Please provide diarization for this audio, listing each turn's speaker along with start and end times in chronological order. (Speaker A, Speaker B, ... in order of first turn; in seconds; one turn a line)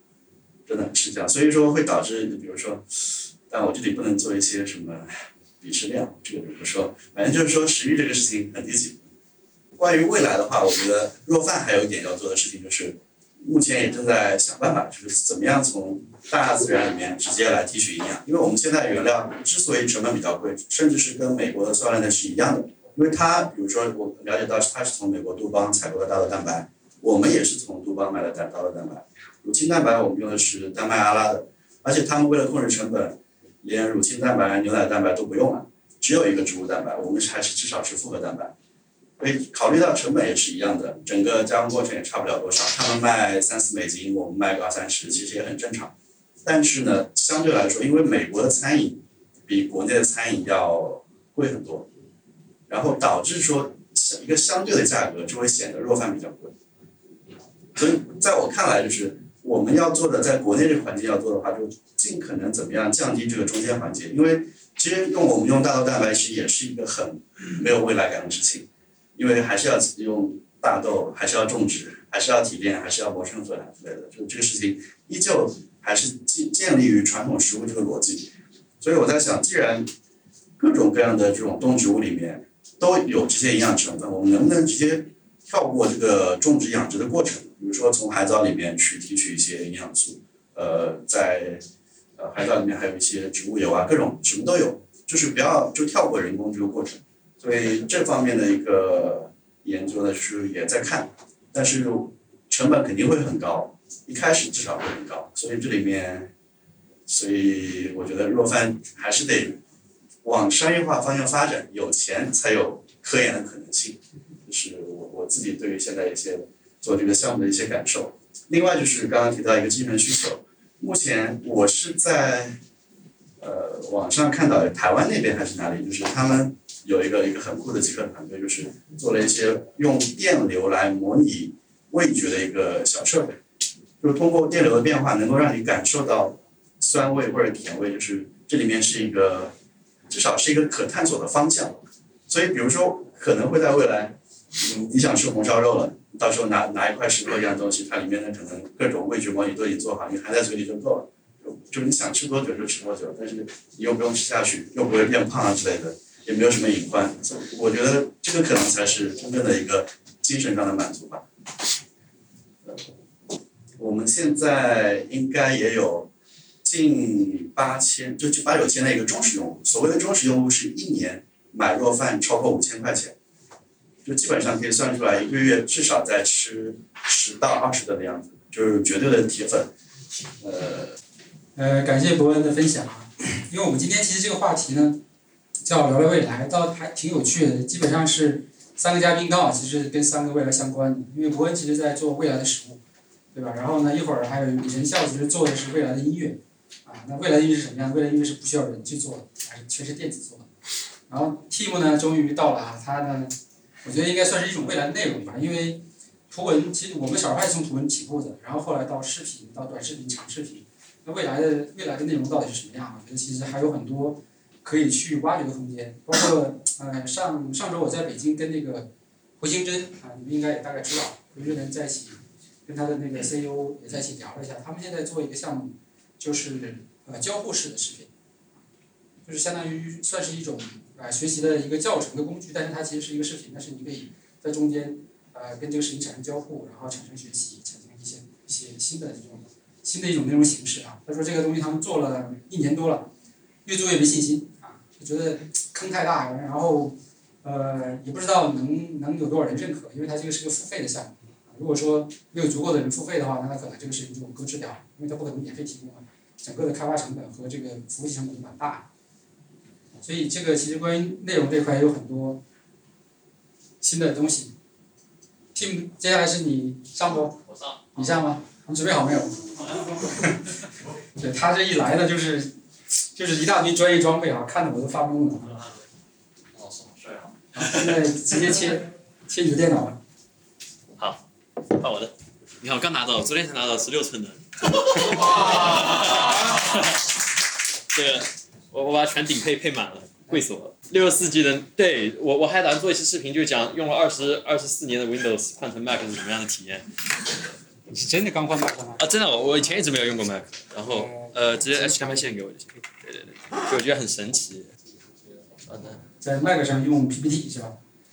Speaker A: 0.7-9.1
Speaker A: 9.8-38.5
Speaker A: 39.2-45.9
Speaker A: 46.4-51.9
Speaker A: 52.7-56.5
Speaker A: 57.8-79.9
Speaker A: 80.6-91.6
Speaker A: 92.2-106.3
Speaker A: 107.1-109.6
Speaker A: 110.2-122.6
Speaker A: 123.4-133.4
Speaker A: 134.0-139.5
Speaker A: 140.1-161.2
Speaker A: 163.8-166.1
Speaker A: 166.6-173.2
Speaker A: 174.0-179.7
Speaker A: 180.4-181.0
Speaker B: 181.6-185.0
Speaker B: 185.7-192.8
Speaker B: 193.3-200.5
Speaker B: 201.1-228.1
Speaker B: 229.2-243.1
Speaker B: 243.7-258.9
Speaker B: 260.0-262.4
Speaker B: 263.8-264.5
Speaker B: 265.5-267.4
Speaker C: 267.5-268.2
Speaker B: 268.0-270.5
Speaker B: 271.2-272.6
Speaker B: 273.1-275.5
Speaker C: 276.5-278.0
Speaker B: 277.6-280.0
Speaker C: 281.0-287.2
Speaker C: 287.9-296.9
Speaker B: 297.9-299.0
Speaker C: 299.0-304.8
Speaker B: 300.9-302.3
Speaker C: 305.6-306.0
Speaker B: 306.2-307.8